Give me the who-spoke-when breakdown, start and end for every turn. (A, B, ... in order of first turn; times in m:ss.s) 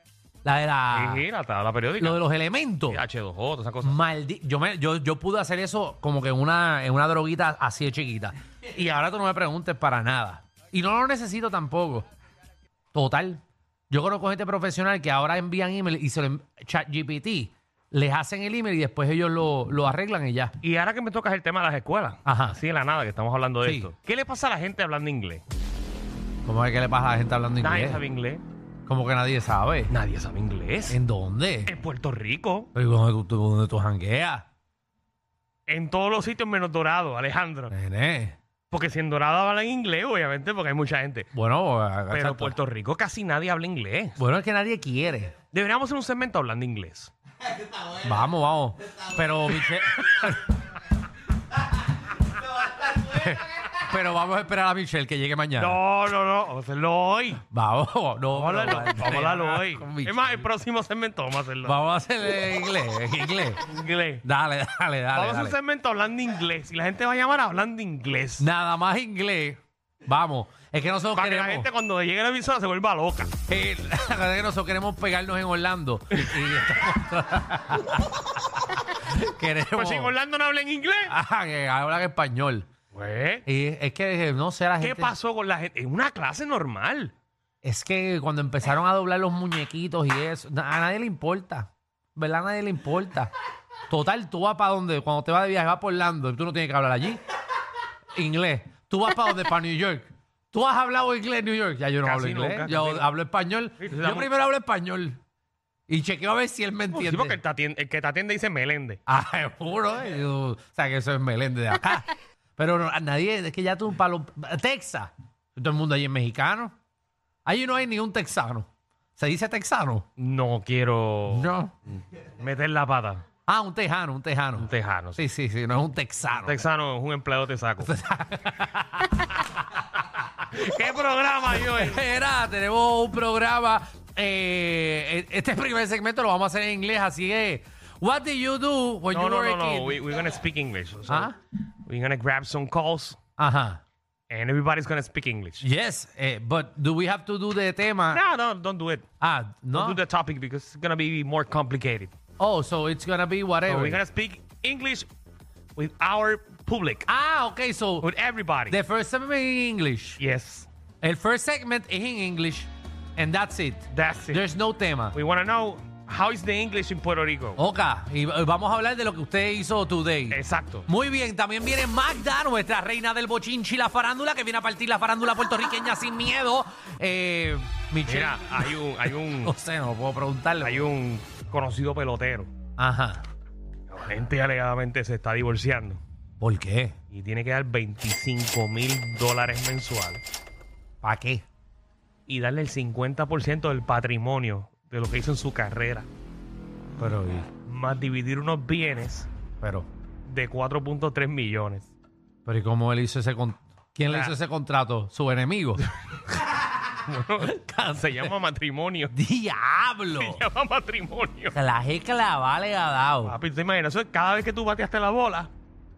0:00.4-0:01.2 A
0:00.9-0:02.2 B
0:02.0-0:03.0 A
0:02.9-0:04.0 B
0:03.8-0:12.1 A
0:12.9-0:20.5 A
0:20.6-0:25.4 B
0:22.2-0:22.6 A
0:23.6-0:23.9 A
0:26.4-0:28.0 A
0:27.6-0:28.4 B
0:28.9-0:29.9 A
0:29.9-0:31.0 B
0:30.9-0:31.7 A
0:31.6-0:32.7 B
0:32.7-0:34.4 A
0:35.7-0:37.7 B
0:37.7-0:38.4 A
0:38.7-0:41.3 B
0:41.3-0:42.6 A
0:42.1-0:44.2 B
0:44.2-0:45.4 A
0:45.4-0:47.1 B
0:47.8-0:50.5 A
0:52.9-0:55.8 A
0:55.6-0:57.4 B
0:57.4-1:00.4 A
0:58.3-1:01.8 B
1:01.6-1:03.7 A
1:03.6-1:04.2 B
1:04.2-1:05.6 A
1:05.1-1:08.5 B
1:08.4-1:11.7 A
1:11.1-1:13.3 B
1:13.5-1:20.1 A
1:19.7-1:21.1 B
1:21.1-1:22.7 A
1:22.9-1:23.4 B
1:23.4-1:25.1 A
1:24.8-1:27.1 B
1:27.6-1:33.3 A
1:33.9-1:37.2 A
1:38.1-1:45.2 A
1:42.0-1:43.1 B
1:43.8-1:44.3 B
1:45.9-1:47.4 A
1:46.9-1:49.0 B
1:49.1-1:56.7 A
1:57.4-2:00.0 A
2:00.2-2:03.2 B
2:01.3-2:01.7 A
2:03.4-2:06.6 A
2:04.6-2:05.2 B
2:06.4-2:07.9 B
2:07.8-2:09.4 A
2:10.4-2:12.0 B
2:11.6-2:20.0 A
2:19.1-2:23.2 B
2:21.1-2:21.3 A
2:23.4-2:23.8 A
2:24.3-2:25.6 B
2:25.6-2:28.2 A
2:28.1-2:29.1 B
2:29.2-2:30.0 A
2:29.7-2:32.1 B
2:32.4-2:34.0 A
2:33.6-2:35.1 B
2:35.8-2:37.1 B
2:37.1-2:38.1 A
2:38.0-2:38.8 B
2:38.7-2:40.2 A
2:40.2-2:40.7 B
2:41.0-2:45.2 A
2:43.9-2:44.4 B
2:45.1-2:47.6 B
2:47.6-2:58.8 A
2:50.3-2:50.9 B
2:58.0-2:59.5 B
2:59.4-3:00.9 A
3:00.6-3:02.5 B
3:02.8-3:03.2 A
3:03.9-3:06.0 B
3:06.4-3:07.0 A
3:07.1-3:10.2 B
3:11.0-3:11.4 A
3:12.3-3:16.1 B
3:17.0-3:17.5 A
3:17.6-3:19.3 B
3:19.6-3:19.9 A
3:20.2-3:21.9 B
3:22.4-3:25.8 A
3:24.1-3:24.3 B
3:27.0-3:29.1 B
3:27.4-3:28.3 A
3:29.1-3:30.4 A
3:30.1-3:31.5 B
3:31.5-3:33.4 A
3:33.2-3:35.5 B